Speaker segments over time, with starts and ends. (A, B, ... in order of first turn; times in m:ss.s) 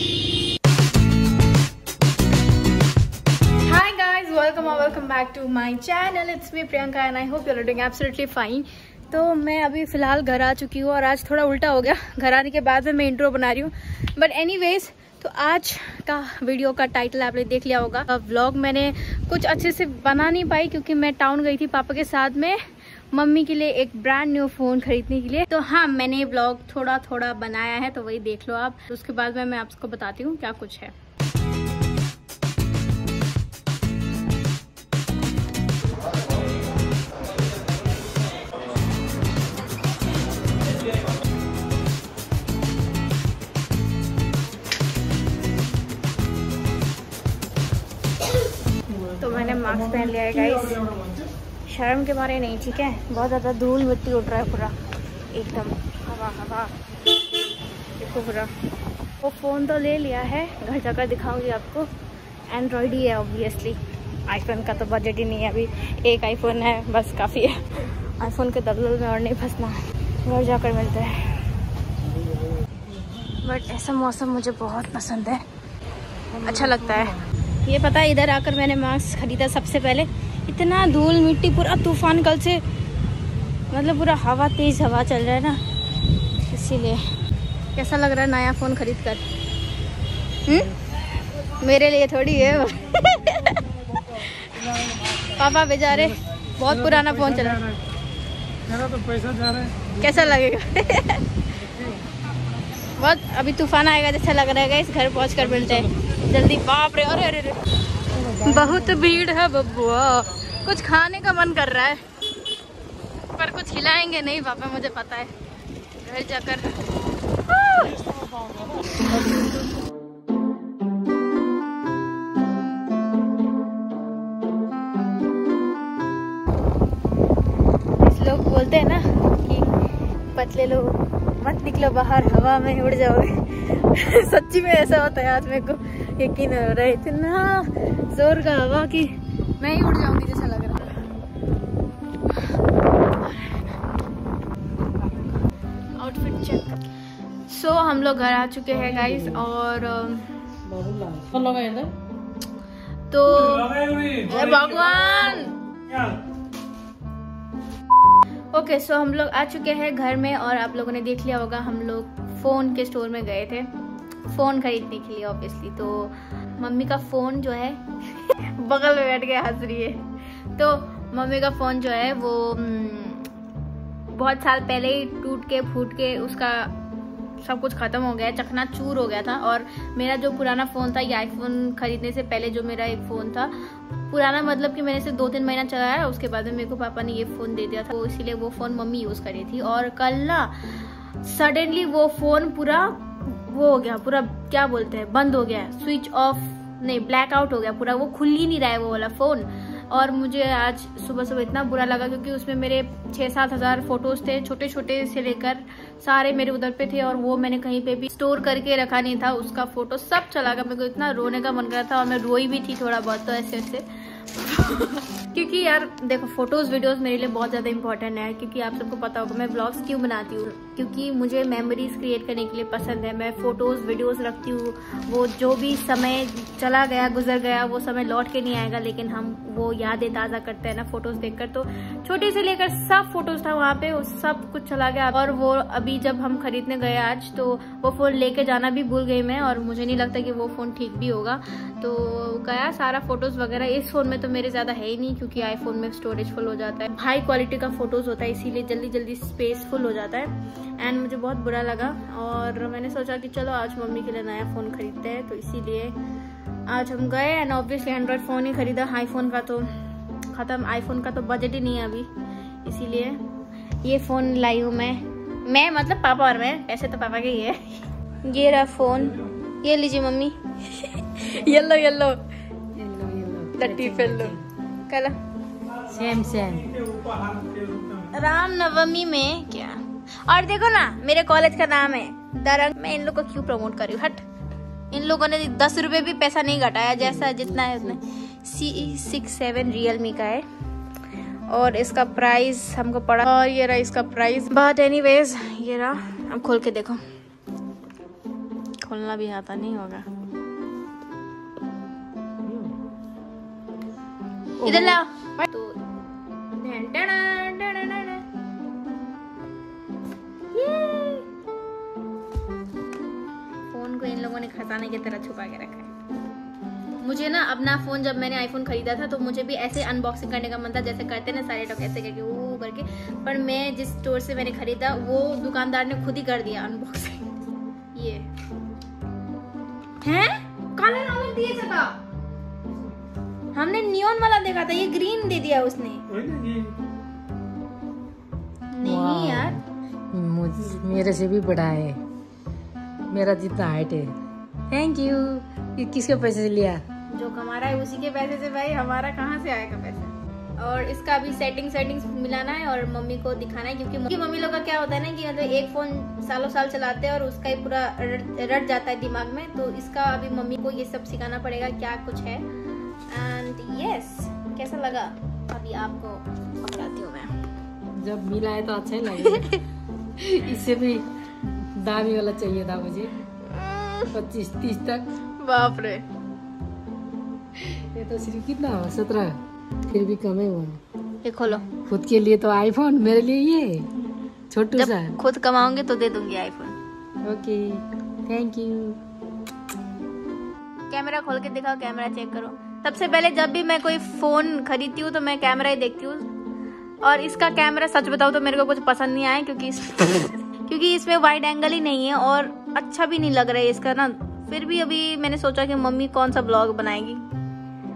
0:03.6-0:22.6 A
0:23.1-0:30.9 A
0:49.2-0:50.8 A
0:50.2-0:51.3 B
0:51.7-0:54.7 A
0:55.3-0:56.7 A
0:58.0-0:58.5 A
0:59.2-1:01.9 A
1:02.5-1:11.4 A
1:13.4-1:15.4 A
1:16.4-1:22.6 A
1:23.7-1:25.6 A
1:26.4-1:27.0 A
1:27.7-1:29.2 A
1:30.4-1:30.8 A
1:31.6-1:34.6 A
1:35.3-1:37.7 A
1:38.7-1:39.9 B
1:39.9-1:41.2 A
1:43.0-1:47.6 A
1:48.2-1:52.0 A
1:53.4-1:55.3 A
1:56.0-1:56.8 A
1:57.5-1:58.2 A
1:58.9-1:59.4 A
2:08.0-2:09.7 A
2:10.3-2:21.1 A
2:23.2-2:23.6 A
2:26.0-2:26.8 A
2:27.5-2:30.3 A
2:28.7-2:29.5 C
2:30.6-2:31.9 C
2:33.1-2:35.5 A
2:33.5-2:34.4 B
2:35.9-2:36.2 B
2:38.5-2:43.7 A
2:44.3-2:50.0 A
2:50.5-2:53.3 A
2:54.1-2:56.7 A
2:57.4-4:16.0 A
4:16.7-4:19.7 A
4:20.3-4:22.1 A
4:22.6-4:23.2 A
4:23.8-4:32.2 A
4:32.7-4:34.4 C
4:33.6-4:34.4 A
4:34.9-4:35.2 A
4:35.8-4:36.8 C
4:36.7-4:38.1 B
4:38.1-4:44.2 A
4:44.9-4:50.4 A
4:47.0-4:48.0 C
4:51.5-4:57.0 A
4:58.8-5:00.1 A
5:02.4-5:02.7 C
5:04.6-5:05.0 C
5:04.6-5:05.8 A
5:06.5-5:08.2 A
5:10.5-5:11.3 A
5:13.7-5:15.9 A
5:17.0-5:27.3 A
5:27.9-5:28.3 A
5:30.0-5:32.0 A
5:33.5-5:36.0 A
5:36.1-5:36.7 B
5:38.7-5:39.6 A
5:38.8-5:39.6 C
5:40.1-5:42.0 C
5:43.1-5:44.2 C
5:44.7-5:46.8 C
5:47.1-6:02.4 A
6:03.1-6:07.3 A
6:08.0-6:09.6 C
6:09.1-6:09.6 A
6:10.2-6:11.0 C
6:11.7-6:13.1 C
6:13.4-6:14.1 A
6:14.1-6:15.1 C
6:15.4-6:16.0 A
6:17.6-6:20.8 C
6:21.2-6:21.7 A
6:21.6-6:23.9 C
6:24.5-6:25.2 C
6:24.7-6:26.8 A
6:27.2-6:29.0 C
6:30.9-6:36.3 A
6:37.0-6:47.2 A